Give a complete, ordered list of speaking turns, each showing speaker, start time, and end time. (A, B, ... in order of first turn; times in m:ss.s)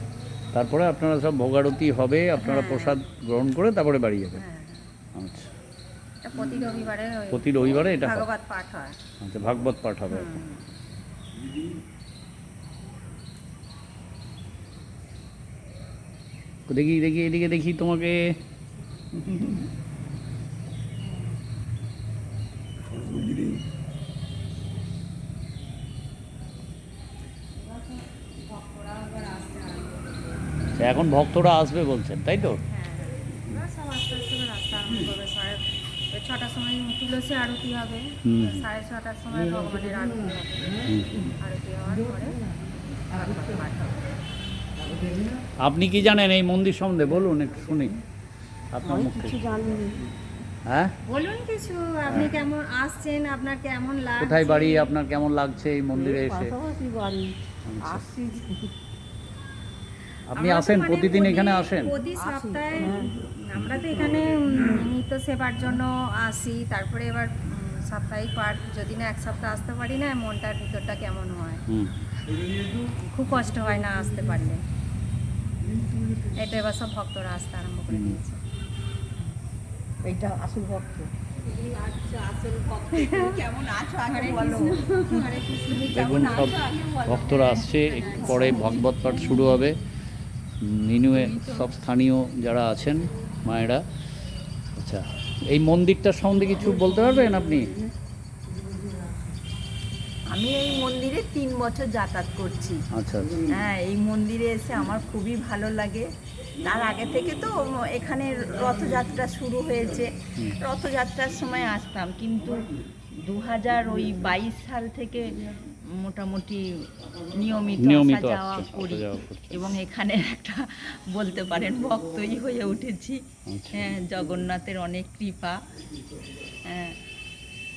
0:00.5-0:04.4 A
0:02.4-0:03.0 B
0:04.4-0:04.9 B
0:05.2-0:05.5 A
0:06.2-0:09.0 B
0:07.3-0:08.3 A
0:09.2-0:10.4 A
0:10.1-0:10.7 B
0:16.7-0:18.4 A
0:27.6-0:30.4 B
0:30.8-0:32.6 A
0:32.7-0:42.4 B
0:38.3-0:38.6 A
0:43.0-0:44.0 B
0:45.6-0:48.0 A
0:48.7-0:49.5 A
0:48.8-0:50.0 C
0:50.7-0:50.9 A
0:51.1-0:54.9 B
0:52.1-0:52.3 A
0:54.2-0:56.6 A
0:56.0-0:58.7 C
0:57.7-0:58.2 A
1:00.3-1:01.9 A
1:00.4-1:11.6 B
1:02.3-1:03.1 C
1:11.7-1:12.0 A
1:13.0-1:14.6 B
1:16.3-1:18.4 B
1:17.9-1:18.2 A
1:20.0-1:29.5 D
1:20.4-1:21.0 C
1:22.9-1:23.4 B
1:24.0-1:26.5 B
1:25.8-1:29.8 A
1:27.8-1:28.8 B
1:30.6-1:33.8 A
1:31.1-1:31.6 D
1:34.7-1:37.8 A
1:40.3-1:42.8 D
1:42.9-1:43.4 A
1:43.5-1:46.1 D
1:46.6-1:52.7 D
1:53.2-1:55.4 D
1:55.9-2:03.2 D
1:57.8-1:59.7 A
2:03.5-2:03.9 A
2:03.7-2:05.6 D
2:06.6-2:06.9 D